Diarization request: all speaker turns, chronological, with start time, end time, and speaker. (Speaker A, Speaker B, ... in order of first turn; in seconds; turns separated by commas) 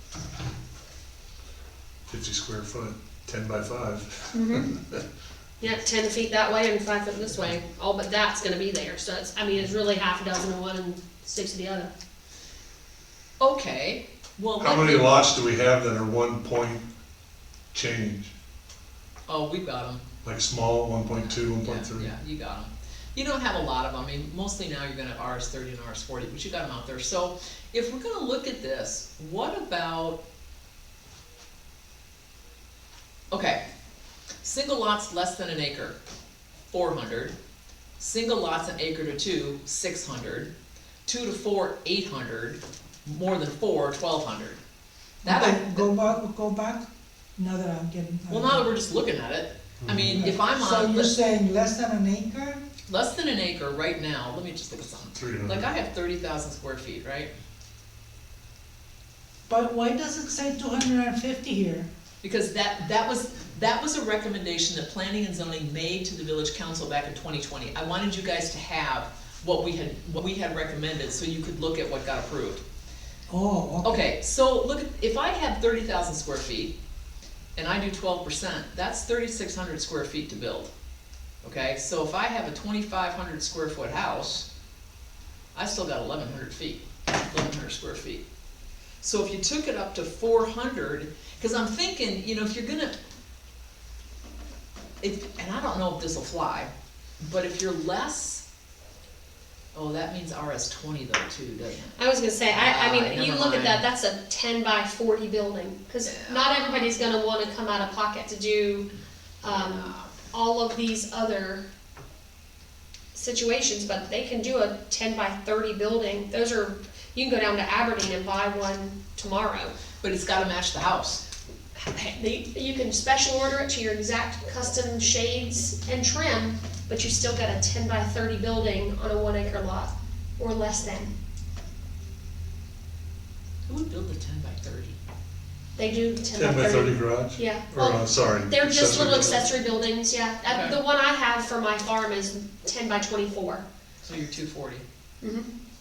Speaker A: 2.1-5.0, Speaker B: 4.3-4.7, Speaker B: 5.6-11.9, Speaker C: 13.4-15.2, Speaker A: 14.6-16.9, Speaker A: 17.7-18.3, Speaker C: 19.3-20.0, Speaker A: 20.2-22.1, Speaker C: 21.3-30.2, Speaker C: 33.3-33.6, Speaker C: 34.4-36.0, Speaker C: 36.7-37.4, Speaker C: 38.0-40.5, Speaker C: 41.1-44.6, Speaker C: 45.2-45.9, Speaker D: 45.2-46.9, Speaker D: 47.4-48.6, Speaker C: 48.3-51.1, Speaker A: 49.8-50.3, Speaker D: 50.1-52.6, Speaker C: 52.9-57.3, Speaker A: 55.1-55.7, Speaker D: 59.5-61.9, Speaker C: 62.2-72.6, Speaker D: 73.3-74.0, Speaker C: 73.8-76.7, Speaker C: 77.6-80.7, Speaker C: 81.4-84.5, Speaker C: 85.5-88.2, Speaker C: 89.0-92.9, Speaker C: 95.0-98.4, Speaker C: 99.7-102.0, Speaker B: 102.0-108.9, Speaker C: 102.5-103.8, Speaker C: 106.0-106.9, Speaker B: 109.4-111.7, Speaker C: 109.5-110.1, Speaker B: 113.1-119.8, Speaker C: 120.0-121.2, Speaker B: 121.8-131.1, Speaker C: 133.7-135.0, Speaker B: 135.8-143.7, Speaker A: 136.3-139.5, Speaker C: 140.5-140.8, Speaker C: 144.0-144.8, Speaker B: 145.2-145.5